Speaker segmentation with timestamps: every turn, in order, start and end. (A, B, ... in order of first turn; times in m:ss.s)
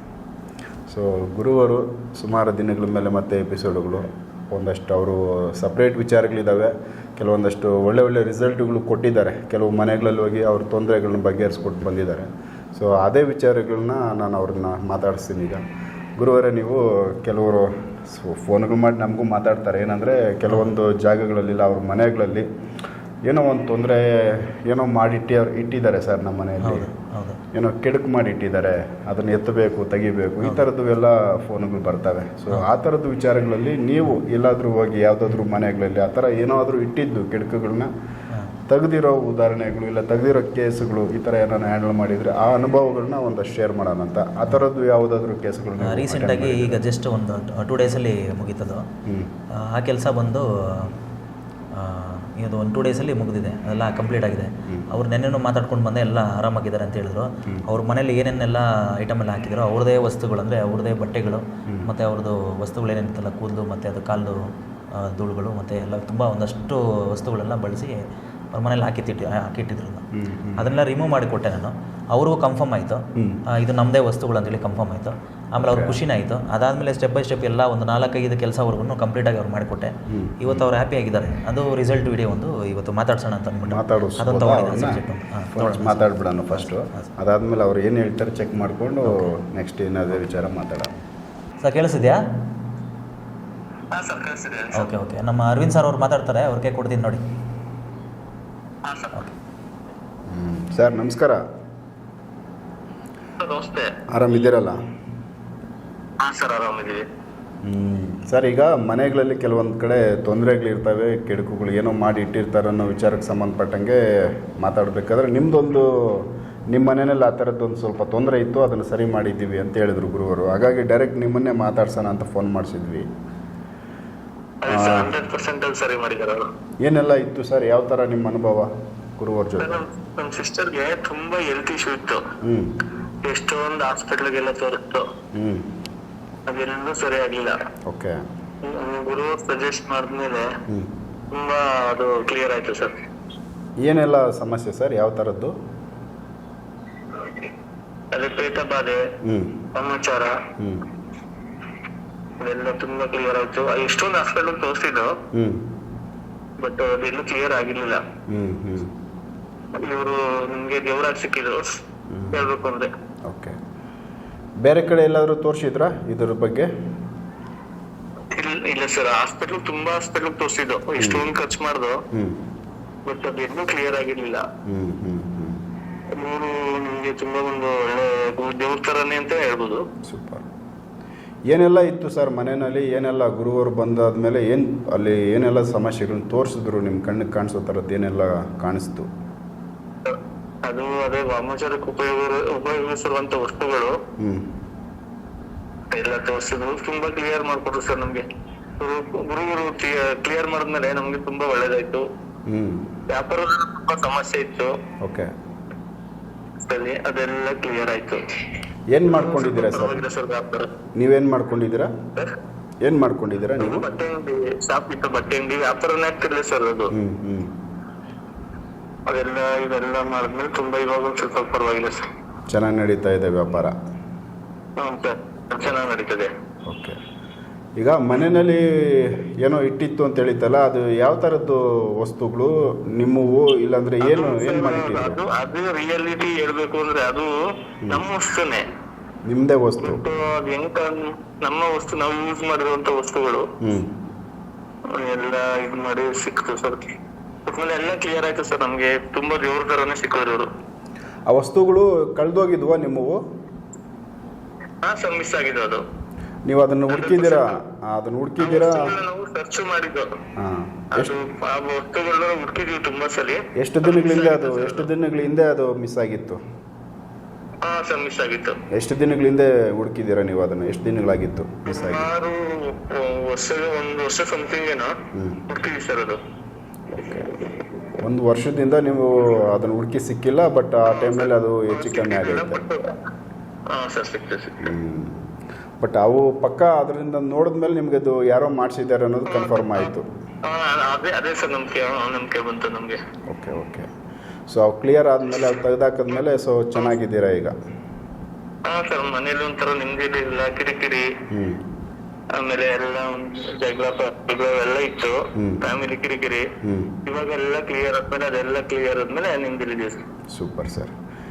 0:00.9-0:15.6 A
0:16.2-0:22.4 A
0:20.5-0:20.8 B
0:23.3-0:26.9 A
0:26.6-0:27.4 B
0:27.5-0:37.9 A
0:38.7-0:46.8 A
0:45.8-0:48.8 B
0:49.6-0:50.9 B
0:51.7-1:08.0 B
1:08.5-1:10.0 B
1:10.1-1:10.7 A
1:10.6-1:27.1 B
1:13.2-1:13.4 A
1:15.6-1:16.0 A
1:20.1-1:20.7 A
1:23.6-1:25.0 A
1:25.5-1:30.9 A
1:29.0-1:29.3 B
1:31.6-1:32.2 B
1:33.9-1:34.9 C
1:34.7-1:37.2 B
1:38.8-1:39.2 C
1:40.3-1:41.4 A
1:43.4-1:43.9 C
1:44.1-1:44.8 A
1:46.2-1:47.0 C
1:47.6-2:03.0 A
2:04.6-2:06.5 C
2:04.7-2:05.1 A
2:06.8-2:09.8 A
2:09.6-2:12.2 C
2:12.4-2:12.7 A
2:13.2-2:15.1 C
2:15.3-2:15.6 A
2:16.5-2:17.6 C
2:17.9-2:18.2 A
2:18.6-2:20.5 C
2:21.3-2:23.0 C
2:23.8-2:25.5 A
2:28.1-2:29.0 C
2:29.2-2:29.6 A
2:29.7-2:30.4 C
2:30.6-2:30.8 A
2:32.4-2:35.2 C
2:35.3-2:35.6 A
2:36.6-2:38.0 C
2:38.3-2:38.9 A
2:39.8-2:41.8 C
2:42.1-2:42.5 A
2:42.3-2:42.9 C
2:43.3-2:43.6 A
2:44.6-2:46.7 A
2:48.3-2:52.0 C
2:51.0-2:51.2 A
2:52.1-2:52.4 A
2:53.0-2:54.4 C
2:54.6-2:55.6 A
2:56.2-2:59.8 C
3:00.0-3:00.4 A
3:01.5-3:09.1 A
3:10.0-3:14.0 C
3:14.2-3:14.4 A
3:15.9-3:18.2 C
3:18.8-3:22.0 C
3:22.5-3:22.9 A
3:23.1-3:24.7 C
3:25.0-3:25.3 A
3:26.6-3:28.3 C
3:28.9-3:30.1 A
3:29.1-3:30.7 C
3:31.0-3:31.9 A
3:32.8-3:33.9 A
3:33.6-3:36.9 C
3:36.9-3:37.5 A
3:39.1-3:42.0 C
3:42.5-3:43.7 A
3:44.8-3:46.3 C
3:46.6-3:47.0 A
3:47.8-3:55.2 A
3:54.0-3:58.6 C
3:59.2-4:00.0 A
3:59.8-4:03.5 C
4:03.6-4:03.9 A
4:04.9-4:06.9 C
4:07.4-4:10.5 C
4:11.3-4:13.2 A
4:14.8-4:15.8 C
4:16.4-4:18.9 A
4:16.9-4:17.6 C
4:18.4-4:20.1 C
4:20.4-4:21.1 A
4:20.9-4:24.9 C
4:23.6-4:26.4 A
4:27.6-4:28.6 C
4:28.7-4:32.1 A
4:31.7-4:34.9 C
4:35.1-4:35.4 A
4:35.5-4:36.2 C
4:36.9-4:37.3 A
4:38.0-4:42.6 A
4:40.9-4:43.0 C
4:43.7-4:44.6 C
4:44.6-4:45.2 A
4:45.8-4:50.1 A
4:49.3-4:49.9 C
4:50.4-4:53.0 C
4:53.3-4:53.9 A
4:54.5-4:57.5 A
4:58.6-5:01.1 C
5:01.3-5:01.6 A
5:02.3-5:06.5 C
5:05.4-5:05.6 A
5:06.6-5:06.9 A
5:07.0-5:10.0 C
5:10.3-5:10.9 A